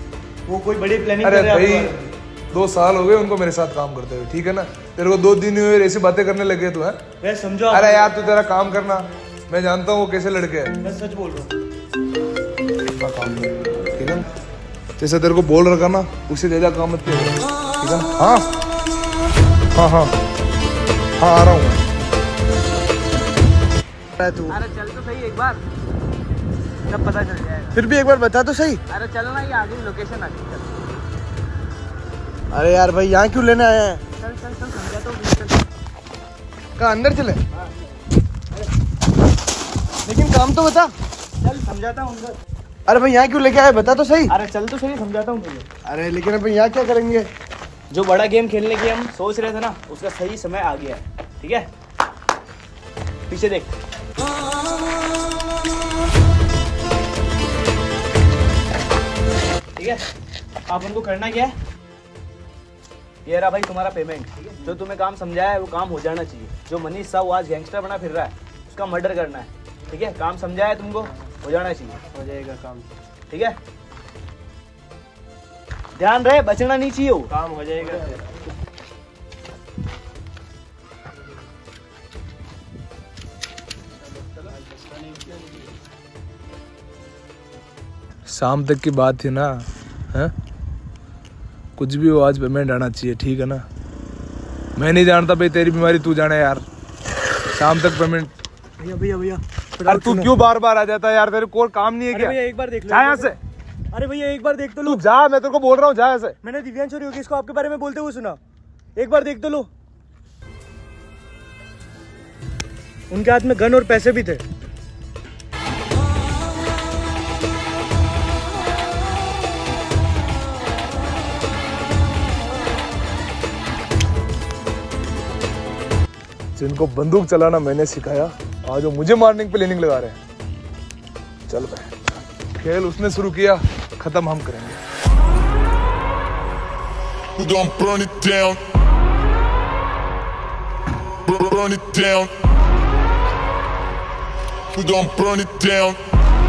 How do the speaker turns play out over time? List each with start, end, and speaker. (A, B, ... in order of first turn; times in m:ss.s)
0:00.5-0:02.0 A
0:01.2-0:02.0 B
0:02.5-0:07.0 B
0:07.2-0:07.9 A
0:07.7-0:10.7 B
0:10.8-0:11.5 A
0:13.0-0:14.3 B
0:15.0-0:18.5 B
0:19.8-0:20.1 B
0:21.2-0:21.8 B
0:24.2-0:24.6 C
0:24.5-0:25.6 D
0:26.8-0:27.8 D
0:27.8-0:28.8 C
0:28.9-0:30.8 D
0:32.5-0:34.0 C
0:34.2-0:35.6 D
0:36.8-0:37.4 C
0:40.0-0:40.9 C
0:41.4-0:42.4 D
0:42.9-0:44.3 C
0:44.3-0:45.7 D
0:45.8-0:47.3 C
0:47.9-0:51.7 D
0:53.3-0:53.7 D
0:59.8-1:00.0 D
1:00.7-1:01.6 D
1:03.2-1:12.0 D
1:12.2-1:12.7 C
1:12.2-1:12.8 E
1:13.3-1:13.6 D
1:16.0-1:17.3 D
1:17.4-1:18.0 C
1:17.4-1:18.2 E
1:24.2-1:25.7 E
1:28.3-1:30.3 B
1:31.8-1:33.6 B
1:34.8-1:36.6 B
1:37.5-1:38.3 B
1:38.8-1:40.3 A
1:39.8-1:42.4 B
1:42.1-1:43.3 A
1:42.9-1:43.4 B
1:43.9-1:45.0 A
1:44.8-1:46.4 B
1:46.4-1:48.4 A
1:49.0-1:49.7 A
1:53.1-1:54.4 A
2:06.6-2:10.2 B
2:11.5-2:12.0 B
2:12.6-2:14.8 B
2:17.4-2:18.5 B
2:17.4-2:18.4 E
2:21.5-2:22.2 E
2:21.6-2:22.2 B
2:24.9-2:26.0 E